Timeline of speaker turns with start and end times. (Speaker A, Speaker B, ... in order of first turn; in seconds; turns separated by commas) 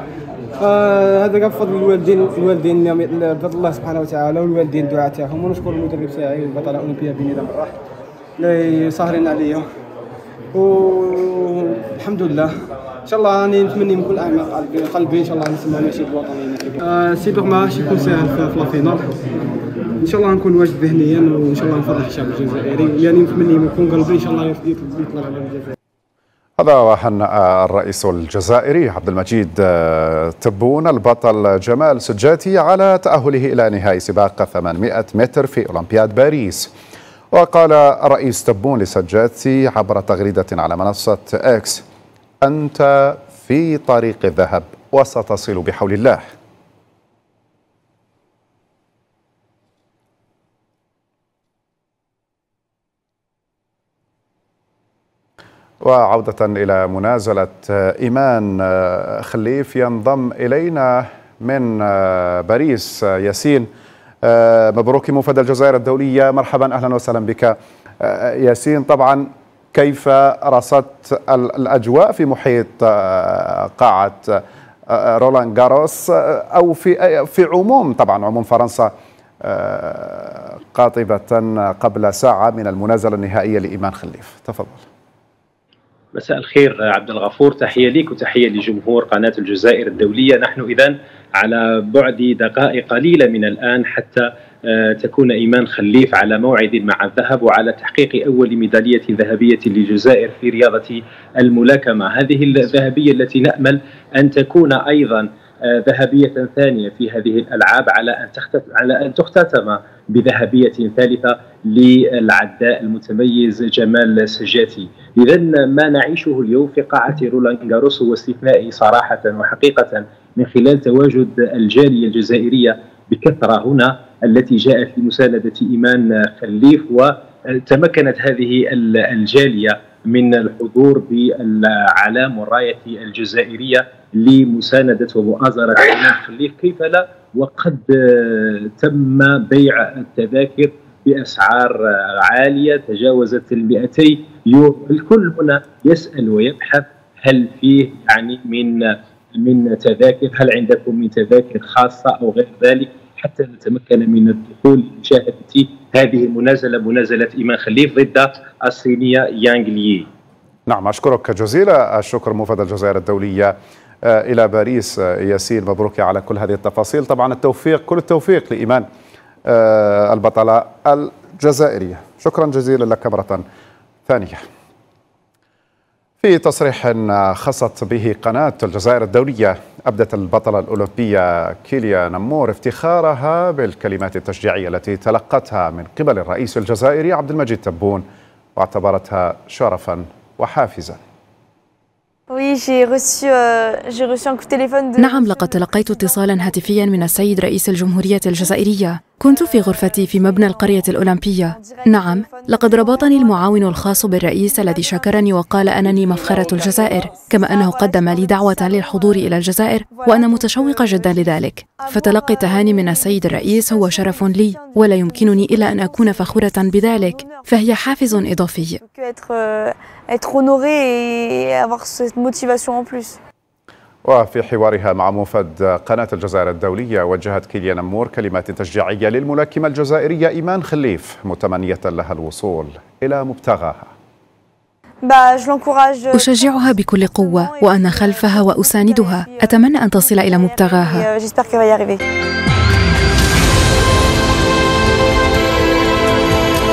Speaker A: 0.6-7.8, Speaker A: 8.4-9.7, Speaker A: 10.5-12.5, Speaker A: 13.1-19.1, Speaker A: 20.0-25.7, Speaker B: 26.6-36.7, Speaker B: 37.3-41.8, Speaker B: 42.4-46.2, Speaker B: 55.8-63.7, Speaker B: 64.2-78.9, Speaker B: 79.4-84.8, Speaker C: 86.2-160.1, Speaker B: 160.7-168.9, Speaker B: 169.5-173.5, Speaker B: 174.1-174.5, Speaker B: 176.2-191.0, Speaker D: 192.3-197.4, Speaker E: 195.0-218.8, Speaker D: 198.2-198.7, Speaker D: 199.2-223.2, Speaker B: 224.1-233.9, Speaker D: 235.0-242.0, Speaker E: 236.2-241.0